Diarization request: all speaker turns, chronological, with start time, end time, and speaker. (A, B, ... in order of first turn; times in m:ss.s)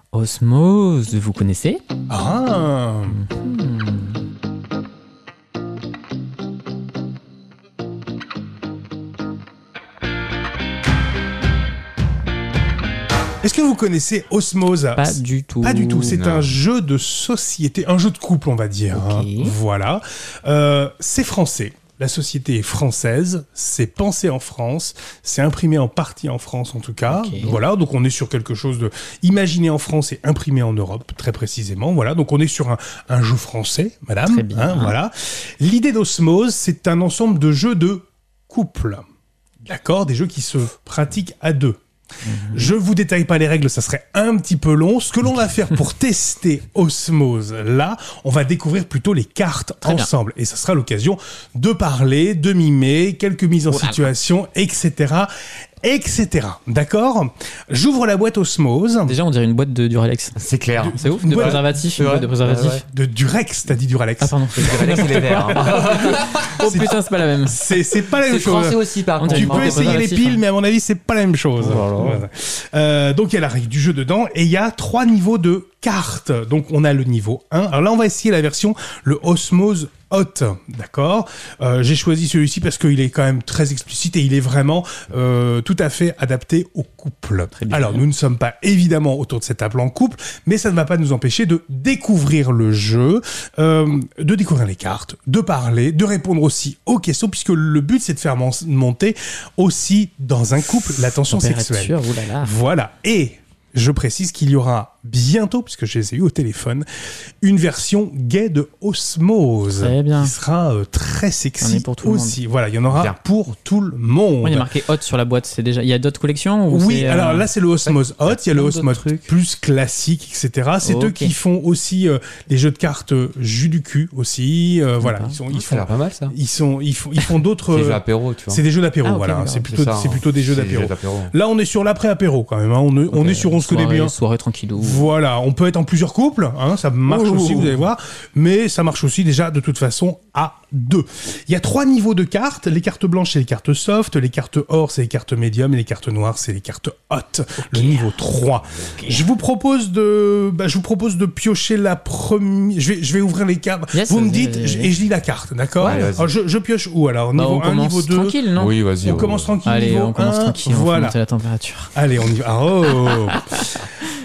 0:00.1-0:01.8 A
0:02.1-0:03.2 B
0:03.1-0:04.2 A
0:13.4-0:39.0 B
0:15.0-0:16.2 A
0:16.1-0:16.6 C
0:18.9-0:19.5 A
0:27.1-0:27.6 A
0:34.2-0:35.0 A
0:39.6-0:41.8 B
0:42.2-0:42.8 A
0:42.5-0:55.3 B
0:49.8-0:50.1 A
0:53.7-0:54.1 A
0:55.8-0:59.1 B
0:59.1-1:00.4 A
1:00.4-1:02.8 C
1:00.8-1:01.7 B
1:00.9-1:02.8 A
1:02.9-1:46.8 B
1:04.2-1:07.6 A
1:04.6-1:06.6 C
1:08.1-1:10.0 C
1:09.2-1:10.4 A
1:11.6-1:12.2 A
1:11.7-1:12.1 C
1:27.6-1:28.0 A
1:41.3-1:42.6 A
1:47.4-1:54.7 B
1:49.7-1:50.3 A
1:51.6-1:52.4 A
1:52.9-1:53.2 C
1:54.4-1:57.5 A
1:56.7-2:14.1 B
1:57.8-1:59.3 C
2:00.8-2:01.3 A
2:05.0-2:05.4 A
2:05.5-2:06.3 C
2:07.7-2:08.6 C
2:09.0-2:09.7 A
2:09.6-2:11.3 C
2:13.1-2:15.1 A
2:14.8-2:38.4 B
2:17.1-2:17.8 A
2:27.7-2:28.1 A
2:33.9-2:34.9 A
2:35.8-2:36.1 A
2:35.8-2:36.3 C
2:37.4-2:38.8 A
2:38.5-2:39.5 C
2:39.0-2:41.2 B
2:39.6-2:41.9 A
2:41.9-2:43.9 B
2:43.0-2:43.6 A